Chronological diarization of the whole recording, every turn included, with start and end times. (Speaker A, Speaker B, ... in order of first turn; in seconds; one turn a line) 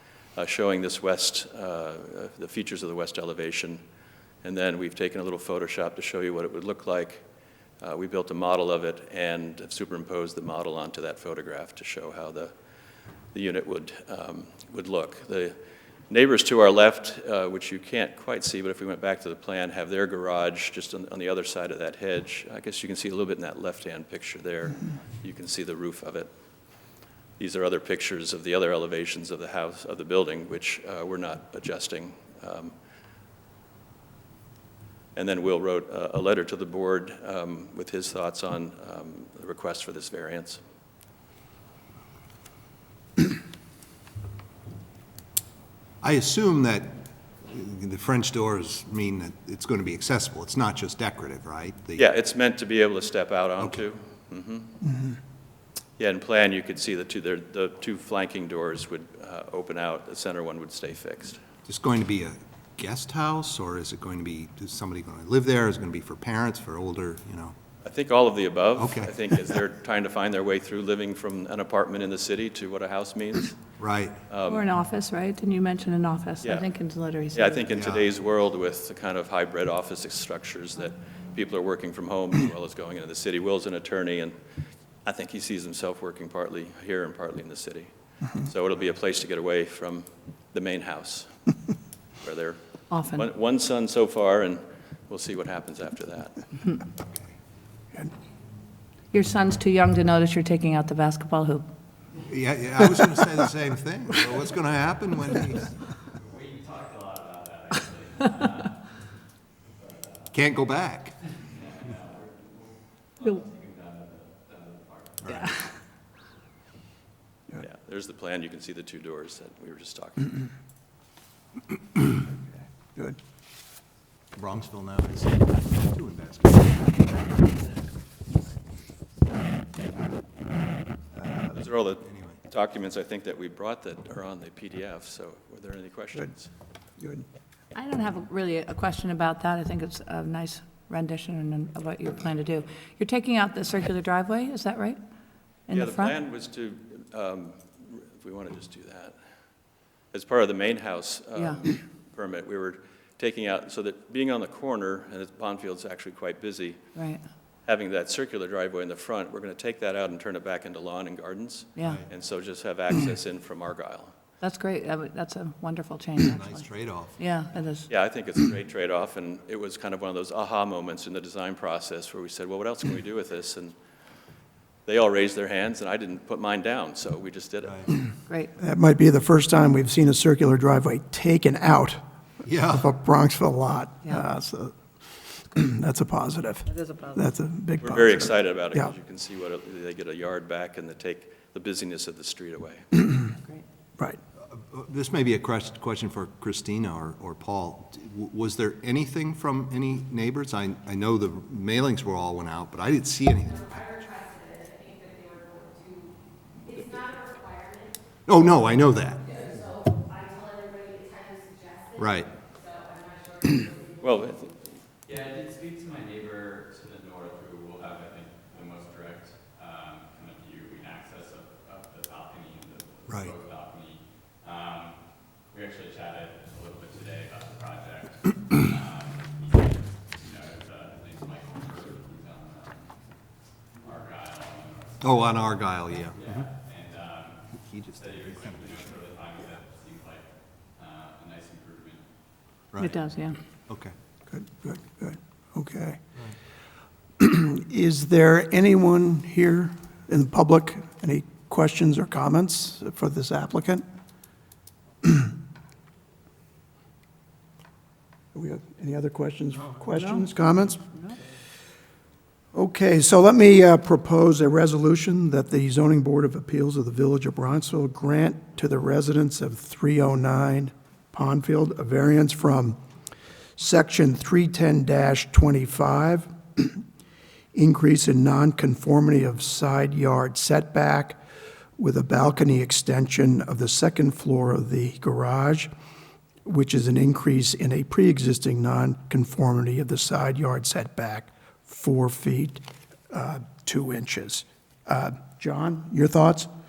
Speaker A: 0.3-3.8
Speaker A: 4.4-7.2
Speaker A: 7.8-12.5
Speaker A: 13.3-15.6
Speaker A: 16.1-26.3
Speaker A: 27.4-32.7
Speaker A: 35.1-40.6
Speaker B: 46.0-52.1
Speaker A: 52.0-54.8
Speaker C: 54.8-55.1
Speaker A: 56.0-61.4
Speaker B: 61.6-67.5
Speaker A: 67.8-73.6
Speaker B: 68.8-69.5
Speaker B: 73.8-74.2
Speaker A: 74.3-74.7
Speaker D: 74.5-77.6
Speaker A: 76.4-76.7
Speaker A: 77.3-84.4
Speaker B: 77.7-78.1
Speaker A: 85.0-91.3
Speaker A: 92.2-92.6
Speaker D: 92.9-93.2
Speaker A: 93.1-96.4
Speaker B: 97.0-97.3
Speaker D: 99.1-101.7
Speaker B: 102.2-105.7
Speaker E: 106.2-109.0
Speaker E: 109.7-110.4
Speaker B: 110.3-111.2
Speaker E: 111.4-115.4
Speaker B: 115.2-115.6
Speaker D: 115.3-115.7
Speaker A: 117.6-120.4
Speaker B: 124.3-127.3
Speaker A: 131.5-136.5
Speaker B: 132.0-132.4
Speaker C: 137.0-137.2
Speaker D: 137.7-145.0
Speaker D: 145.7-146.1
Speaker A: 145.7-149.2
Speaker A: 150.1-156.8
Speaker D: 151.3-151.6
Speaker D: 156.9-157.2
Speaker A: 157.7-164.2
Speaker D: 161.8-162.0
Speaker B: 161.8-162.1
Speaker D: 164.4-167.9
Speaker B: 166.2-167.2
Speaker A: 167.9-173.8
Speaker A: 174.8-178.0
Speaker C: 178.6-182.0
Speaker B: 182.4-182.9
Speaker C: 182.5-188.9
Speaker D: 186.7-187.2
Speaker A: 187.8-192.9
Speaker B: 194.4-204.1
Speaker B: 208.2-209.3
Speaker B: 212.0-212.3
Speaker A: 214.0-214.6
Speaker E: 215.1-232.9
Speaker B: 223.1-223.3
Speaker E: 233.8-242.0
Speaker B: 235.0-236.5
Speaker B: 237.5-239.0
Speaker B: 242.7-243.0
Speaker D: 242.8-243.4
Speaker B: 243.7-243.9
Speaker C: 244.3-246.1
Speaker C: 247.2-253.8
Speaker C: 255.0-255.3
Speaker C: 258.3-260.8
Speaker D: 259.9-260.3
Speaker D: 260.9-261.2
Speaker C: 262.5-272.8
Speaker C: 273.6-276.8
Speaker C: 277.5-281.2
Speaker C: 281.8-285.7
Speaker C: 286.4-296.5